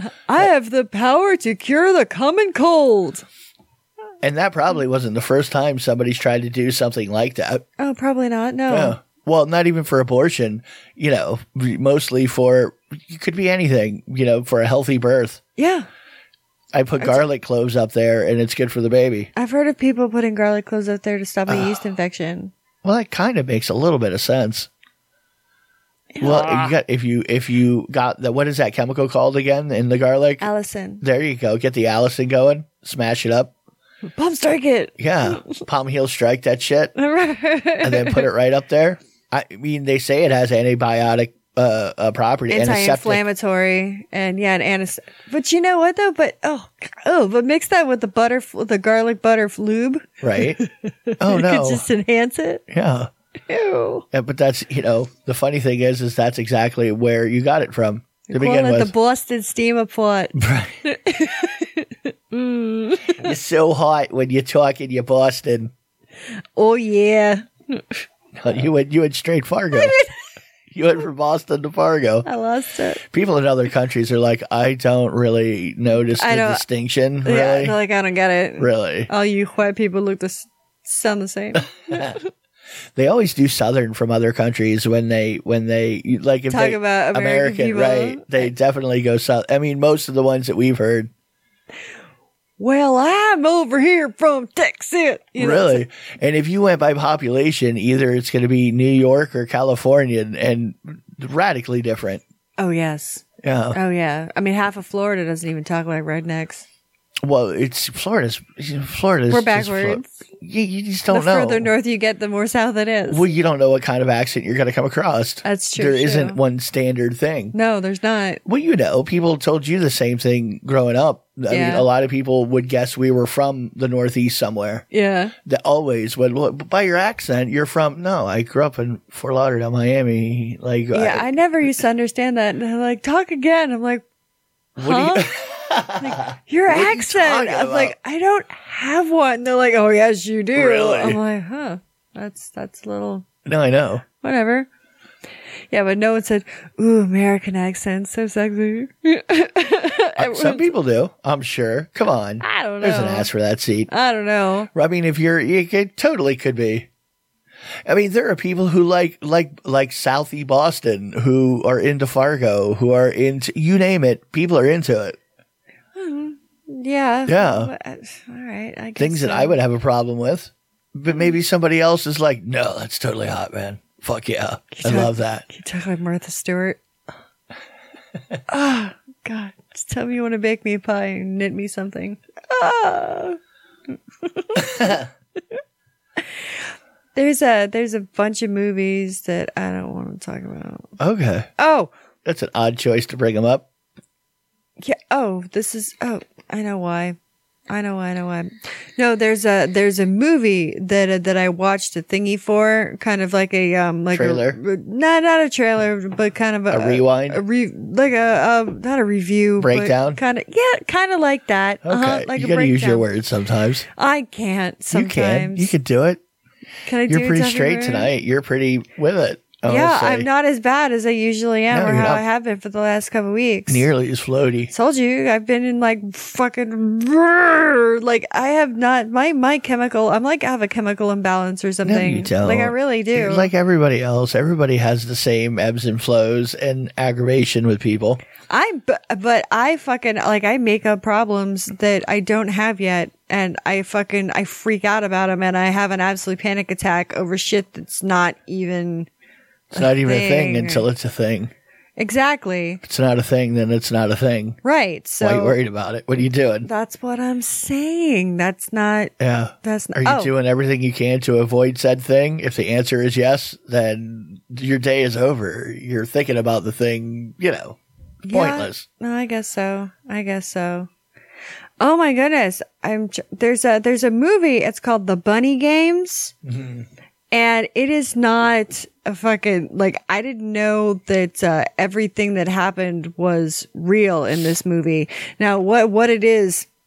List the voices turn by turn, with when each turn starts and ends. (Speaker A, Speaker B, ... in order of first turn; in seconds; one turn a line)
Speaker A: 0.3-3.2
Speaker B: 4.2-7.6
Speaker A: 7.8-9.0
Speaker B: 8.7-15.4
Speaker A: 15.6-15.9
Speaker B: 16.7-19.3
Speaker A: 19.4-22.5
Speaker B: 22.8-24.7
Speaker A: 26.1-26.7
Speaker B: 26.2-30.4
Speaker A: 30.4-31.0
Speaker B: 31.0-33.5
Speaker A: 34.1-35.5
Speaker B: 35.0-36.9
Speaker A: 36.9-38.3
Speaker B: 37.8-43.2
Speaker A: 42.5-52.6
Speaker B: 50.2-50.6
Speaker B: 51.2-51.8
Speaker B: 52.7-53.1
Speaker A: 53.5-54.0
Speaker B: 54.1-58.9
Speaker A: 58.3-63.3
Speaker B: 60.3-60.8
Speaker B: 63.1-65.7
Speaker A: 66.5-68.0
Speaker B: 68.3-70.0
Speaker A: 69.7-70.1
Speaker B: 70.7-72.3
Speaker A: 72.2-73.0
Speaker B: 73.1-77.8
Speaker A: 76.2-76.6
Speaker A: 77.2-82.3
Speaker B: 78.6-79.1
Speaker B: 81.9-82.2
Speaker B: 83.0-91.1
Speaker A: 86.5-88.5
Speaker A: 92.6-95.8
Speaker B: 95.4-102.2
Speaker A: 102.6-106.6
Speaker B: 103.4-103.8
Speaker B: 107.2-111.7
Speaker A: 109.3-110.2
Speaker A: 111.1-113.2
Speaker B: 113.1-117.5
Speaker A: 115.4-116.4
Speaker A: 117.5-118.4
Speaker B: 118.4-124.8
Speaker A: 121.5-121.9
Speaker A: 124.9-125.3
Speaker B: 125.5-131.3
Speaker A: 130.9-134.0
Speaker A: 134.8-135.3
Speaker B: 134.8-137.9
Speaker A: 136.0-143.2
Speaker B: 140.5-141.2
Speaker B: 143.4-144.0
Speaker A: 144.2-144.7
Speaker A: 145.7-150.7
Speaker B: 150.2-153.9
Speaker A: 152.4-153.3
Speaker A: 153.9-154.7
Speaker B: 154.7-156.9
Speaker B: 157.8-165.2
Speaker A: 165.9-169.6
Speaker B: 167.3-167.7
Speaker B: 169.0-175.5
Speaker A: 174.7-176.8
Speaker A: 178.5-183.4
Speaker A: 183.9-185.0
Speaker B: 184.6-185.0
Speaker A: 186.2-186.5
Speaker A: 187.1-190.9
Speaker B: 191.0-191.5
Speaker A: 191.6-191.9
Speaker B: 192.2-193.6
Speaker A: 194.8-197.2
Speaker A: 197.7-213.1
Speaker B: 204.1-204.6
Speaker B: 206.7-207.4
Speaker B: 209.6-210.2
Speaker B: 211.8-213.8
Speaker A: 213.9-215.7
Speaker B: 214.9-216.2
Speaker A: 216.8-218.1
Speaker B: 217.1-220.3
Speaker A: 219.6-223.9
Speaker B: 221.7-222.2
Speaker B: 223.7-224.7
Speaker A: 224.7-233.5
Speaker B: 231.8-238.2
Speaker A: 238.5-249.1
Speaker B: 249.7-251.5
Speaker A: 249.7-250.9
Speaker A: 252.0-252.8
Speaker B: 252.8-254.6
Speaker A: 254.6-255.6
Speaker B: 255.2-256.7
Speaker A: 256.6-260.3
Speaker B: 259.2-267.8
Speaker A: 268.2-270.9
Speaker B: 268.3-268.8
Speaker A: 271.8-276.3
Speaker B: 276.4-276.8
Speaker A: 277.3-286.7